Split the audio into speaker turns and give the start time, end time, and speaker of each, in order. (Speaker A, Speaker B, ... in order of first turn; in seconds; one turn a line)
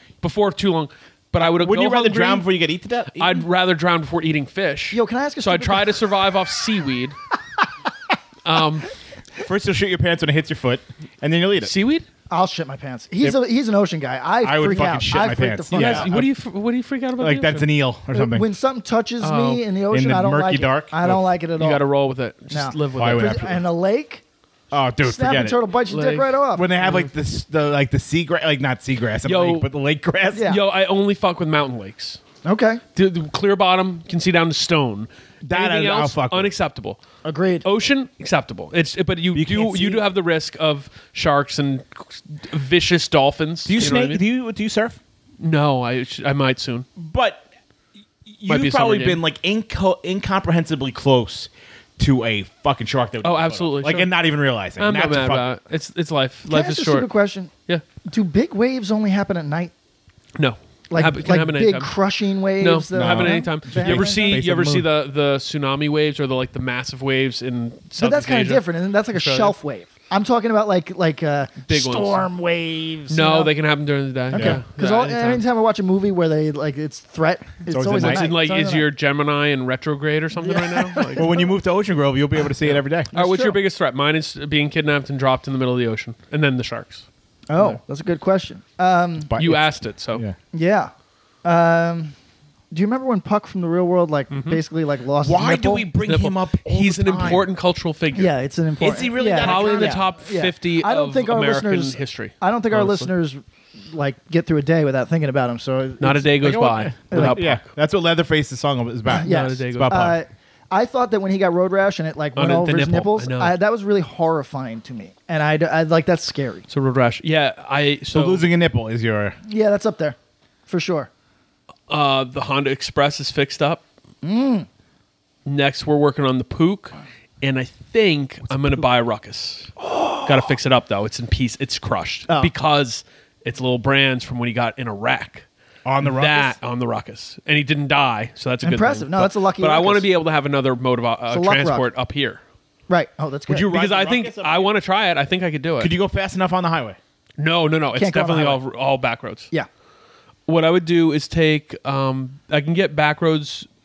Speaker A: 0.2-2.5
Speaker B: 1.4-3.5
Speaker A: 3.1-7.2
Speaker C: 4.9-6.0
Speaker A: 8.4-8.9
Speaker B: 9.4-11.7
Speaker A: 11.6-12.1
Speaker C: 12.3-16.1
Speaker B: 14.4-16.3
Speaker A: 15.7-17.7
Speaker B: 17.2-18.5
Speaker C: 18.1-21.9
Speaker A: 19.2-19.6
Speaker B: 19.9-21.2
Speaker A: 21.6-23.5
Speaker C: 22.5-24.2
Speaker B: 23.0-23.6
Speaker B: 24.7-25.6
Speaker C: 25.0-26.7
Speaker A: 25.9-27.1
Speaker B: 26.5-30.6
Speaker A: 29.2-29.7
Speaker C: 30.3-30.6
Speaker A: 30.4-32.2
Speaker C: 32.4-32.8
Speaker A: 33.0-37.0
Speaker B: 35.4-36.5
Speaker C: 37.2-37.7
Speaker A: 37.6-44.2
Speaker B: 39.3-40.0
Speaker B: 43.7-45.0
Speaker A: 45.4-46.9
Speaker B: 47.0-47.5
Speaker B: 48.3-55.5
Speaker A: 48.5-49.2
Speaker A: 53.2-54.1
Speaker A: 54.8-57.1
Speaker C: 56.5-57.5
Speaker C: 58.0-59.7
Speaker A: 60.4-61.9
Speaker C: 60.9-64.4
Speaker A: 62.6-69.5
Speaker B: 62.9-64.9
Speaker C: 68.0-73.5
Speaker A: 71.6-72.3
Speaker A: 73.1-75.4
Speaker C: 74.3-78.9
Speaker B: 74.3-74.6
Speaker B: 77.7-78.3
Speaker A: 77.9-81.3
Speaker C: 80.4-81.5
Speaker B: 81.2-83.1
Speaker A: 82.7-87.1
Speaker C: 83.1-83.6
Speaker C: 87.5-89.3
Speaker B: 89.3-90.4
Speaker A: 89.4-90.2
Speaker C: 90.5-90.9
Speaker C: 91.4-92.1
Speaker C: 92.7-95.9
Speaker A: 94.3-94.6
Speaker B: 95.2-97.5
Speaker A: 96.0-98.3
Speaker C: 98.1-106.5
Speaker B: 98.8-100.1
Speaker A: 99.2-103.1
Speaker A: 106.0-107.7
Speaker B: 106.4-110.2
Speaker C: 107.1-107.5
Speaker C: 109.1-116.7
Speaker A: 109.2-110.1
Speaker A: 112.4-113.5
Speaker A: 116.7-118.5
Speaker B: 118.1-119.4
Speaker C: 119.5-120.2
Speaker C: 120.7-121.1
Speaker A: 121.9-123.8
Speaker C: 124.2-124.7
Speaker A: 125.5-129.7
Speaker C: 129.8-130.3
Speaker A: 130.2-135.5
Speaker B: 135.8-136.6
Speaker A: 136.0-142.4
Speaker C: 138.6-140.1
Speaker C: 141.3-141.9
Speaker C: 142.9-143.7
Speaker B: 143.5-144.8
Speaker A: 143.6-145.9
Speaker B: 145.8-147.0
Speaker A: 147.4-149.5
Speaker C: 147.9-148.6
Speaker A: 150.5-153.7